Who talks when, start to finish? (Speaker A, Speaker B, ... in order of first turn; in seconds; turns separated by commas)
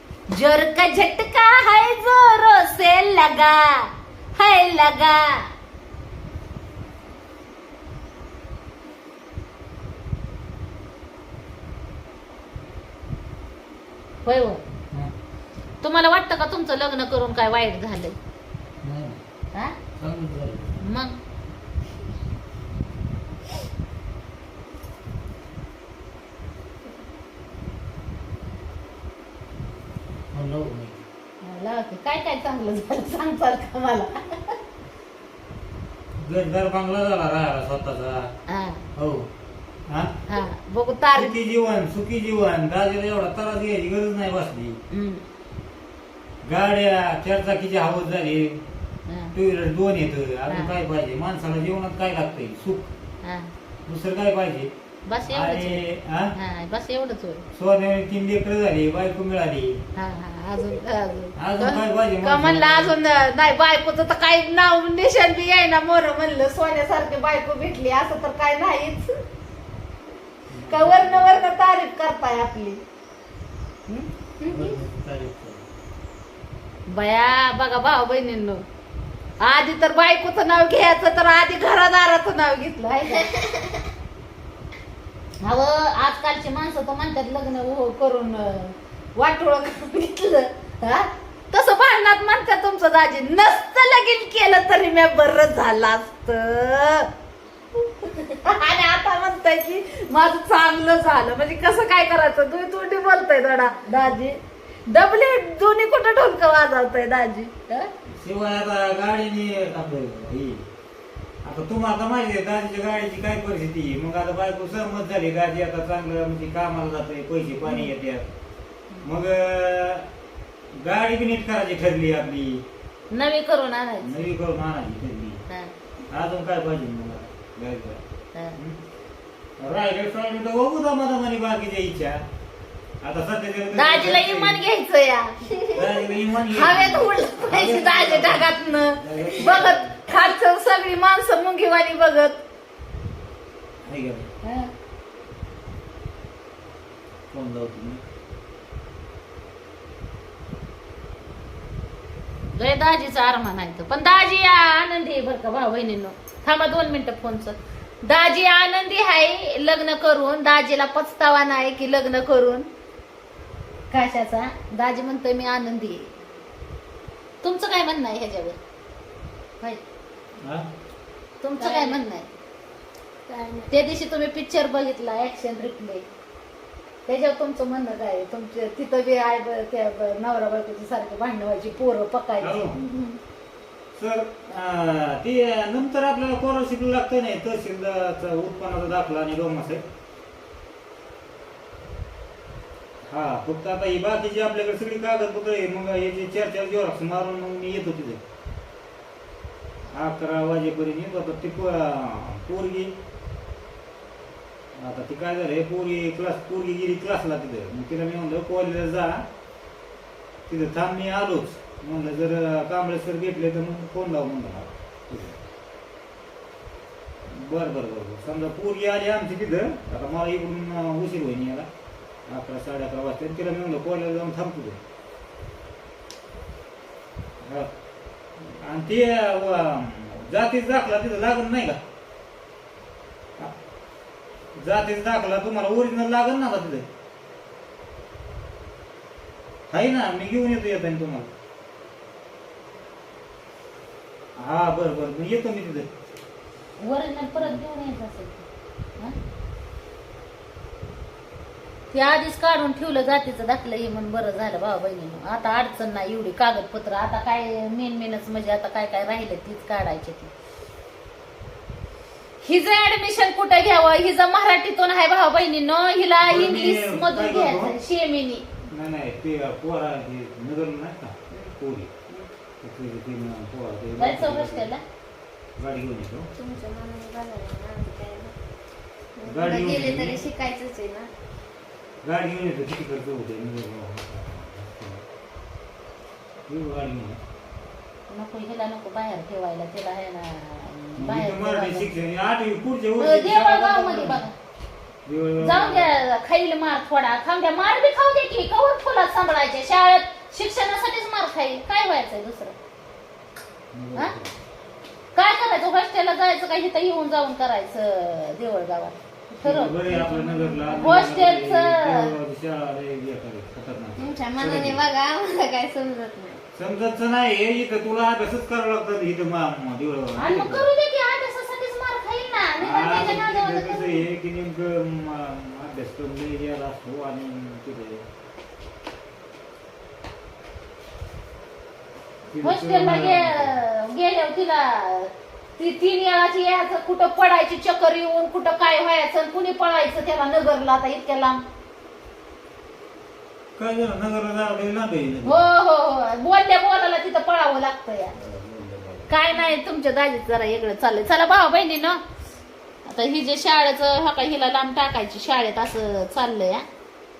Speaker A: 0.3-5.5, Speaker A: 14.2-14.6, Speaker A: 15.8-18.2, Speaker B: 18.8-19.2, Speaker B: 20.0-20.8, Speaker A: 20.8-21.2, Speaker B: 30.3-31.0, Speaker A: 31.4-34.6, Speaker B: 36.2-38.3, Speaker A: 38.5-38.8, Speaker B: 38.9-39.3, Speaker B: 39.9-40.2, Speaker A: 40.3-41.4, Speaker B: 41.1-44.8, Speaker A: 44.9-45.2, Speaker B: 46.4-48.6, Speaker A: 49.1-49.3, Speaker B: 49.3-52.9, Speaker A: 50.5-50.8, Speaker A: 53.2-53.5, Speaker B: 53.9-54.7, Speaker A: 55.1-57.5, Speaker B: 55.3-56.3, Speaker B: 57.5-59.8, Speaker A: 59.9-69.2, Speaker B: 61.4-63.0, Speaker B: 70.5-71.4, Speaker A: 70.7-72.8, Speaker A: 73.9-74.8, Speaker B: 74.4-75.7, Speaker A: 76.9-78.6, Speaker A: 79.4-83.3, Speaker A: 85.4-97.1, Speaker A: 98.0-107.9, Speaker B: 108.1-110.6, Speaker B: 111.4-118.3, Speaker B: 119.0-120.1, Speaker B: 120.8-122.6, Speaker A: 123.1-124.2, Speaker B: 124.0-125.4, Speaker A: 125.5-125.7, Speaker B: 126.1-128.0, Speaker B: 128.5-128.8, Speaker B: 129.6-132.2, Speaker B: 133.0-134.6, Speaker A: 133.7-135.4, Speaker B: 135.7-139.9, Speaker A: 136.5-142.4, Speaker B: 143.8-144.3, Speaker A: 144.4-144.7, Speaker B: 147.3-148.0, Speaker A: 152.6-162.7, Speaker A: 163.9-166.1, Speaker A: 167.4-168.6, Speaker A: 171.4-172.3, Speaker C: 171.6-172.0, Speaker C: 173.3-173.7, Speaker A: 173.7-176.0, Speaker A: 177.1-182.6, Speaker B: 182.4-182.8, Speaker C: 182.8-183.2, Speaker B: 183.9-189.8, Speaker B: 193.1-198.2, Speaker B: 199.9-202.9, Speaker B: 204.7-209.2, Speaker B: 210.5-215.4, Speaker B: 217.3-221.7, Speaker B: 222.3-224.8, Speaker B: 227.4-227.7, Speaker B: 228.4-231.8, Speaker B: 234.6-236.8, Speaker B: 239.7-241.3, Speaker B: 244.4-245.9, Speaker A: 246.8-248.4, Speaker A: 251.9-260.3, Speaker A: 262.4-268.4, Speaker B: 266.2-267.8, Speaker B: 268.7-271.9, Speaker B: 272.6-274.7, Speaker A: 274.0-274.8, Speaker B: 275.6-276.3, Speaker C: 276.4-278.3, Speaker C: 279.2-281.1, Speaker B: 279.2-280.2, Speaker B: 282.0-285.0, Speaker B: 286.5-287.2, Speaker A: 288.1-291.9, Speaker B: 291.0-294.2, Speaker A: 293.0-294.3, Speaker B: 295.1-295.9, Speaker A: 295.4-302.6, Speaker B: 303.7-304.3, Speaker A: 305.1-309.7, Speaker B: 309.4-314.8, Speaker C: 309.8-311.0, Speaker A: 310.8-312.1, Speaker C: 314.0-316.4, Speaker B: 316.6-320.7, Speaker A: 320.2-324.0, Speaker B: 322.6-328.0, Speaker B: 332.3-333.6, Speaker A: 332.4-341.4, Speaker B: 343.6-345.5, Speaker A: 345.2-348.1, Speaker B: 348.1-349.1, Speaker A: 349.1-352.0, Speaker A: 352.9-356.6